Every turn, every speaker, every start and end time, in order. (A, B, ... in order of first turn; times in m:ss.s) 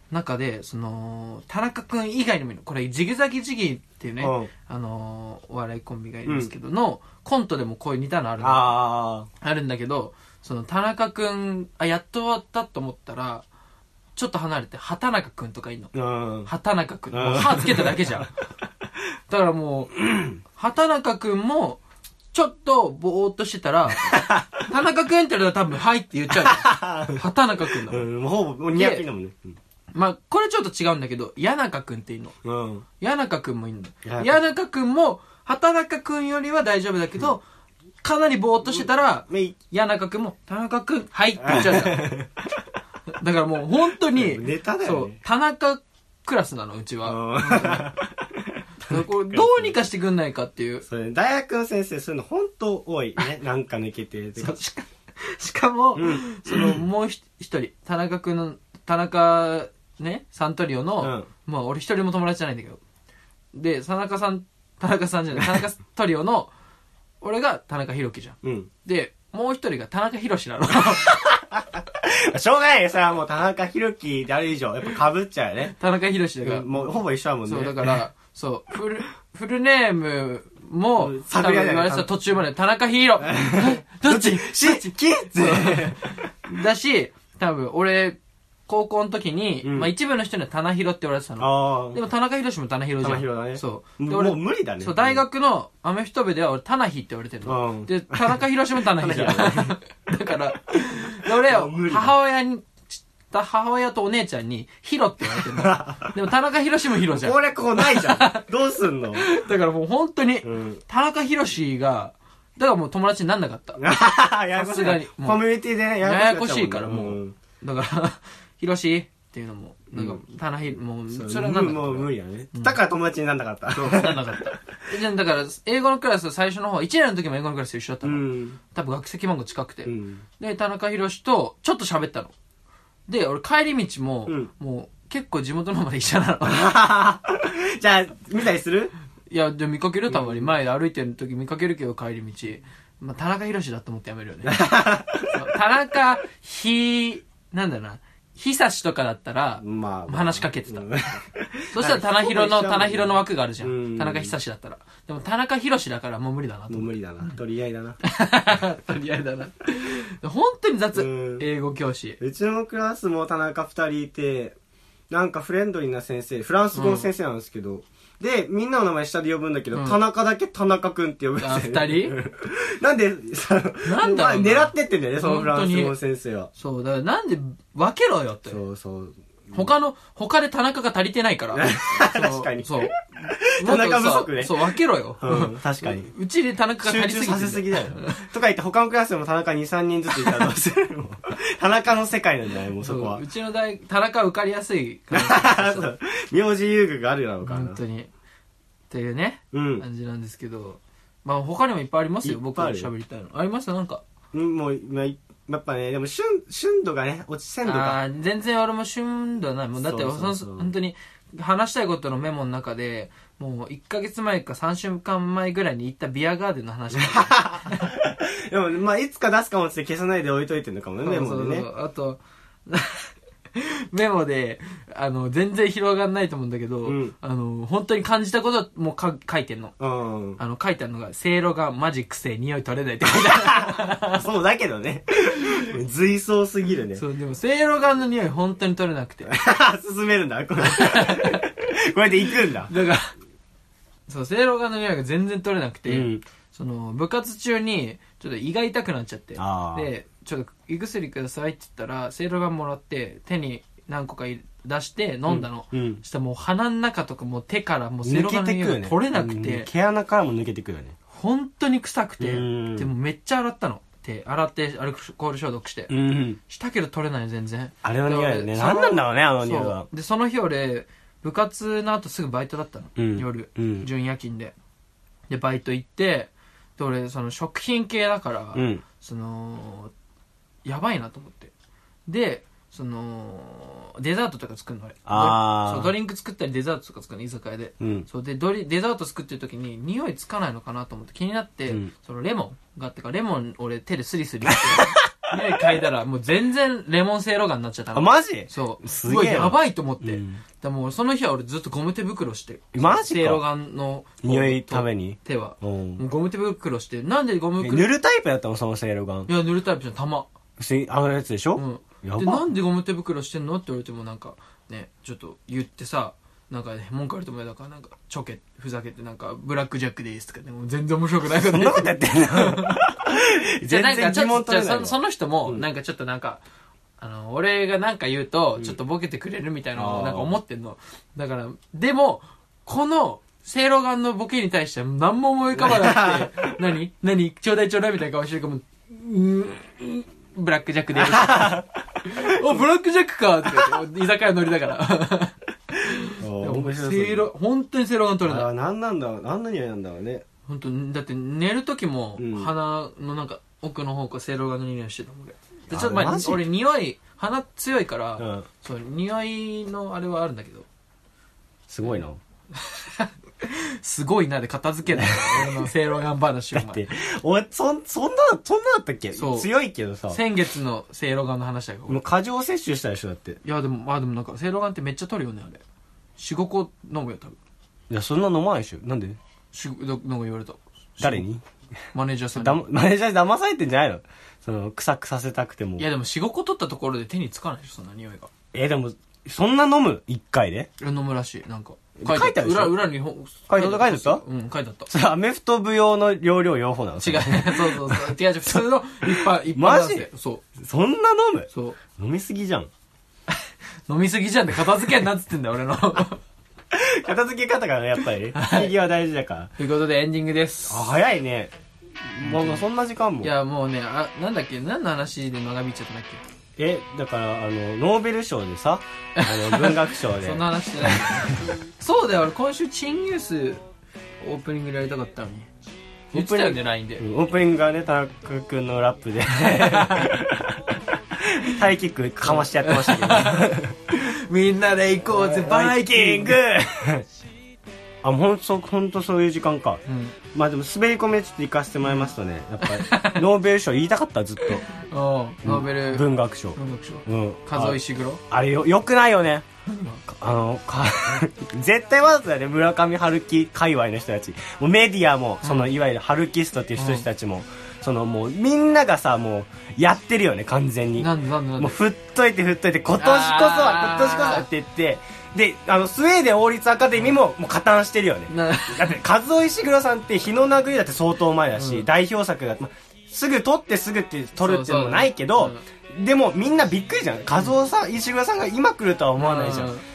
0:00.1-0:08.8 A
0:04.2-0:04.5 B
0:06.2-0:06.5 B
0:08.4-0:09.3 B
0:09.4-0:13.4 A
0:14.2-0:15.9 A
0:15.9-0:16.5 B
0:16.4-0:18.3 A
0:17.1-0:18.3 B
0:19.3-0:21.8 A
0:20.0-0:20.4 B
0:22.3-0:28.0 A
0:24.0-0:24.6 B
0:26.4-0:27.2 B
0:27.8-0:29.6 B
0:28.7-0:29.0 A
0:29.9-0:32.3 A
0:32.4-0:32.8 B
0:33.0-0:37.4 A
0:34.0-0:34.3 B
0:38.0-0:42.0 A
0:38.7-0:39.5 B
0:41.4-0:42.3 B
0:43.1-0:47.9 A
0:44.1-0:45.2 B
0:47.0-0:49.7 B
0:48.9-0:50.8 A
0:50.8-0:54.6 B
0:54.4-1:02.8 A
0:56.0-0:56.8 B
1:01.0-1:01.3 B
1:03.5-1:06.5 A
1:07.2-1:11.2 A
1:08.4-1:08.7 B
1:10.8-1:15.8 B
1:15.7-1:48.4 A
1:16.4-1:18.0 B
1:21.0-1:22.1 B
1:23.2-1:26.3 B
1:29.6-1:29.9 B
1:31.4-1:32.0 B
1:33.0-1:35.2 B
1:37.4-1:38.2 B
1:39.0-1:39.7 B
1:41.2-1:42.1 B
1:45.4-1:46.1 B
1:47.1-1:49.2 B
1:49.2-1:53.8 A
1:50.4-1:50.8 B
1:53.8-1:57.4 B
1:54.5-1:55.4 A
1:56.0-2:02.8 A
1:59.9-2:00.2 B
2:01.1-2:04.5 B
2:03.7-2:12.3 A
2:08.0-2:08.6 B
2:09.8-2:10.2 B
2:13.1-2:16.7 A
2:16.4-2:18.9 B
2:19.3-2:24.6 A
2:20.1-2:20.5 B
2:24.4-2:25.4 B
2:25.3-2:31.0 A
2:29.6-2:34.3 B
2:31.7-2:37.4 A
2:36.7-2:38.0 B
2:38.0-2:42.2 A
2:40.9-2:41.4 B
2:42.2-2:44.6 B
2:45.1-2:56.5 B
2:46.7-2:47.1 A
2:49.7-2:50.0 A
2:51.4-2:52.1 A
2:53.8-2:56.0 A
2:56.6-2:58.6 A
2:58.5-2:59.7 B
2:59.5-3:08.2 A
3:01.5-3:06.1 B
3:06.8-3:13.2 B
3:12.8-3:15.9 A
3:15.1-3:17.8 B
3:17.4-3:18.1 A
3:18.9-3:24.0 A
3:19.5-3:19.8 B
3:22.2-3:22.9 B
3:24.3-3:28.0 B
3:27.6-3:37.9 A
3:29.8-3:30.7 B
3:36.9-3:41.7 B
3:41.0-3:49.7 A
3:46.8-3:47.1 B
3:49.8-3:50.4 B
3:50.4-3:54.2 A
3:53.2-3:57.0 B
3:57.0-3:59.3 A
3:59.3-4:02.7 B
4:00.6-4:01.4 A
4:02.7-4:03.1 A
4:04.1-4:19.7 A
4:05.9-4:06.2 B
4:09.4-4:09.9 B
4:15.3-4:16.0 B
4:18.0-4:21.0 B
4:21.1-4:34.5 A
4:22.2-4:22.9 B
4:25.9-4:26.4 B
4:27.8-4:29.9 B
4:33.0-4:33.9 B
4:35.3-4:39.9 A
4:38.5-4:38.8 B
4:40.6-4:41.5 A
4:42.1-5:07.9 A
4:45.0-4:45.9 B
4:47.8-4:48.1 B
4:54.5-4:54.9 B
4:57.9-5:00.4 B
5:02.7-5:03.4 B
5:04.2-5:06.0 B
5:07.6-5:09.3 B
5:09.3-5:10.3 A
5:10.6-5:12.5 B
5:11.6-5:22.8 A
5:21.2-5:25.6 B
5:23.6-5:26.4 A
5:27.0-5:48.5 A
5:29.8-5:30.3 B
5:35.5-5:36.6 B
5:41.0-5:41.6 B
5:46.2-5:47.3 B
5:48.2-5:50.2 B
5:50.5-6:00.7 A
5:52.2-5:52.5 B
5:55.7-5:56.4 B
5:58.2-5:58.5 B
6:01.7-6:02.2 B
6:02.5-6:06.8 A
6:04.9-6:05.7 B
6:06.5-6:10.2 B
6:09.2-6:09.5 A
6:10.1-6:12.0 A
6:11.9-6:13.4 B
6:13.4-6:15.6 A
6:16.2-6:17.4 A
6:17.9-6:19.2 B
6:19.5-6:21.2 A
6:21.0-6:21.4 B
6:21.9-6:22.6 A
6:22.3-6:25.8 B
6:25.8-6:28.3 A
6:28.5-6:30.7 B
6:30.8-6:34.9 A
6:32.0-6:32.8 B
6:33.5-6:34.2 B
6:34.9-6:42.7 B
6:37.0-6:40.4 A
6:41.5-6:41.8 A
6:43.3-6:46.2 A
6:46.7-6:49.5 B
6:48.3-6:48.7 A
6:49.6-6:50.9 A
6:50.7-6:51.5 B
6:52.0-6:53.3 B
6:52.2-6:52.6 A
6:53.2-6:56.2 A
6:56.6-7:01.3 B
6:59.2-7:03.6 A
7:04.2-7:05.5 A
7:06.1-7:07.0 A
7:06.1-7:10.6 B
7:09.3-7:10.1 A
7:11.2-7:13.8 B
7:12.2-7:16.4 A
7:15.1-7:17.0 B
7:18.0-7:19.8 B
7:19.8-7:20.2 A
7:20.3-7:24.7 B
7:22.6-7:23.2 A
7:24.4-7:28.2 A
7:25.4-7:29.4 B
7:29.6-7:30.0 A
7:30.0-7:59.7 B
7:35.4-7:35.7 A
7:36.8-7:37.0 A
7:41.0-7:41.8 A
7:43.0-7:44.5 A
7:48.3-7:49.0 A
7:51.6-7:51.9 A
7:54.4-7:55.6 A
7:59.2-7:59.8 A